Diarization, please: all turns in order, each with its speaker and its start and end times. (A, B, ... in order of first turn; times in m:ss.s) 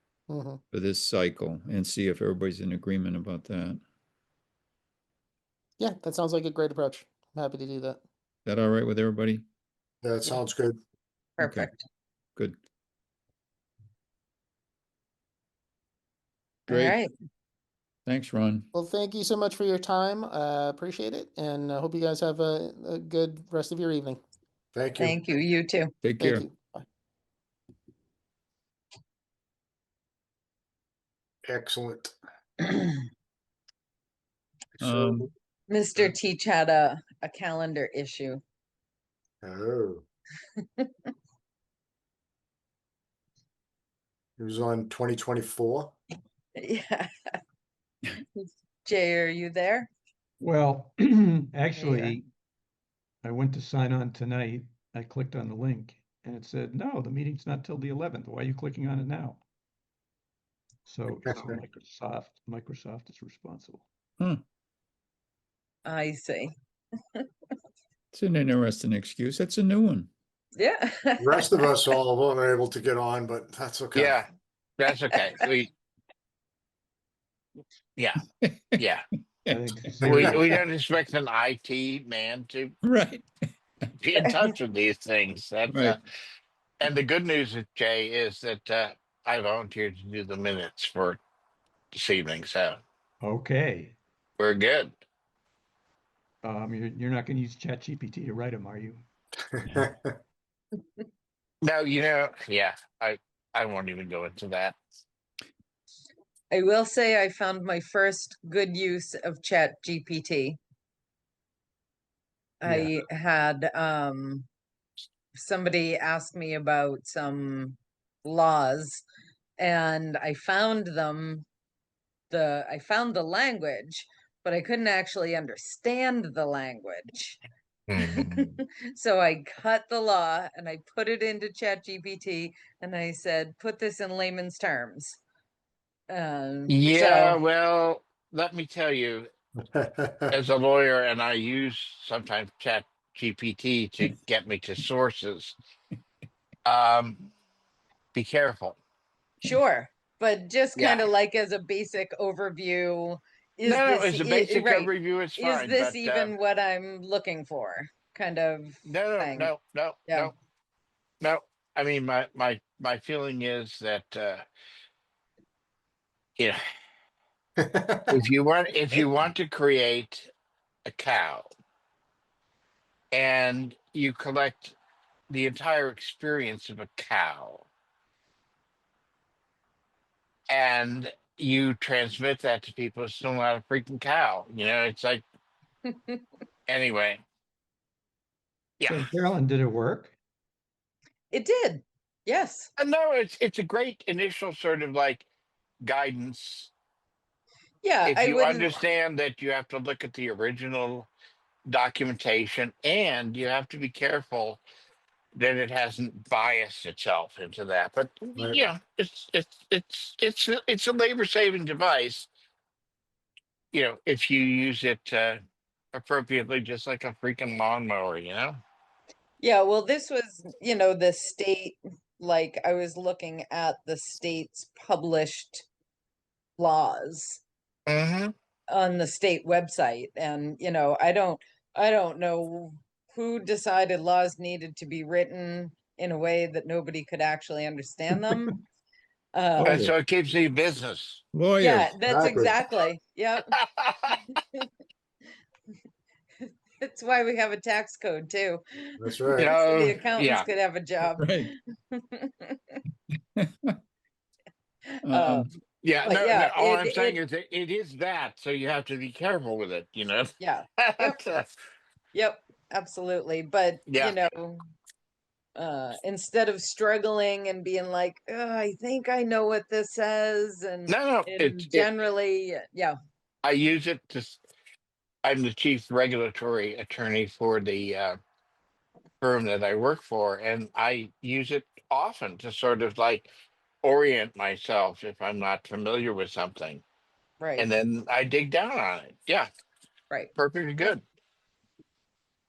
0:00.3-0:00.6 A
0:00.7-0:03.8 B
0:05.8-0:08.0 A
0:08.4-0:09.4 B
0:10.0-0:10.8 C
0:11.4-0:11.8 D
0:11.4-0:11.7 B
0:16.7-0:17.0 B
0:16.7-0:17.1 D
0:18.0-0:18.7 B
0:18.7-0:24.2 A
0:24.7-0:25.2 C
0:25.0-0:25.9 D
0:26.0-0:26.4 B
0:26.2-0:26.8 A
0:31.4-0:32.1 C
0:34.8-0:35.3 C
0:34.8-0:35.3 B
0:35.7-0:38.4 D
0:39.4-0:40.0 C
0:44.4-0:45.9 C
0:46.6-0:47.1 D
0:48.3-0:49.9 D
0:50.4-0:52.3 E
0:51.8-0:52.2 D
0:53.2-0:59.4 E
1:00.8-1:03.8 E
1:01.2-1:01.6 C
1:05.8-1:06.5 D
1:08.1-1:10.1 B
1:10.6-1:11.5 D
1:11.2-1:14.2 C
1:13.9-1:15.7 F
1:18.0-1:18.2 F
1:18.4-1:18.8 B
1:18.8-1:19.0 F
1:19.5-1:20.6 E
1:20.0-1:20.4 C
1:20.0-1:22.8 F
1:22.8-1:23.2 B
1:24.0-1:26.0 F
1:25.7-1:26.0 B
1:26.8-1:31.2 F
1:31.9-1:32.8 F
1:33.2-1:34.0 E
1:34.4-1:35.0 F
1:36.4-1:39.0 E
1:39.7-1:40.1 C
1:41.6-1:44.8 F
1:46.5-1:50.6 D
1:52.6-1:54.5 D
1:52.6-1:52.9 E
1:55.3-1:59.0 D
1:59.6-2:01.4 D
2:02.3-2:07.4 D
2:07.9-2:08.6 F
2:08.0-2:15.2 D
2:16.1-2:17.4 D
2:16.7-2:19.3 F
2:19.7-2:20.3 C
2:20.3-2:25.6 F
2:26.6-2:27.3 F
2:28.1-2:28.8 F
2:29.4-2:39.5 D
2:30.7-2:31.1 F
2:33.6-2:36.3 F
2:38.8-2:40.3 F
2:40.1-2:40.3 D
2:41.2-2:44.4 F
2:47.6-2:48.2 C
2:48.1-2:50.3 F
2:50.8-2:51.5 F
2:53.1-2:54.7 F
2:55.3-2:57.6 F
3:00.5-3:05.2 F
3:05.9-3:06.2 D
3:06.7-3:07.2 F
3:08.8-3:09.1 F
3:08.9-3:10.1 E
3:11.3-3:12.7 D
3:12.8-3:15.2 F
3:15.8-3:16.7 F
3:17.8-3:18.8 D
3:18.0-3:21.1 F
3:21.7-3:24.6 F
3:25.4-3:32.3 F
3:28.4-3:28.6 C
3:33.7-3:35.4 F
3:35.9-3:38.6 F
3:39.4-3:45.6 D
3:46.6-3:47.4 D
3:47.9-3:48.3 F
3:48.7-3:58.6 D
3:59.3-3:59.9 D
3:59.6-3:59.9 E
3:59.6-4:01.2 F
4:01.3-4:02.0 B
4:01.6-4:03.5 D
4:02.0-4:02.6 C
4:03.6-4:04.2 F
4:04.1-4:04.4 D
4:06.8-4:12.8 D
4:09.0-4:09.5 C
4:09.3-4:10.5 F
4:11.1-4:11.5 B
4:13.4-4:13.7 B
4:14.9-4:15.5 D
4:15.1-4:15.5 B
4:15.8-4:21.5 F
4:16.0-4:17.2 D
4:20.4-4:21.2 D
4:22.1-4:24.6 D
4:23.9-4:24.2 F
4:25.6-4:33.0 D
4:30.9-4:31.9 F
4:33.4-4:34.4 F
4:35.2-4:38.2 F
4:39.2-4:43.3 F
4:43.8-4:46.8 F
4:47.4-4:47.7 D
4:47.6-4:49.5 F
4:50.4-4:51.0 F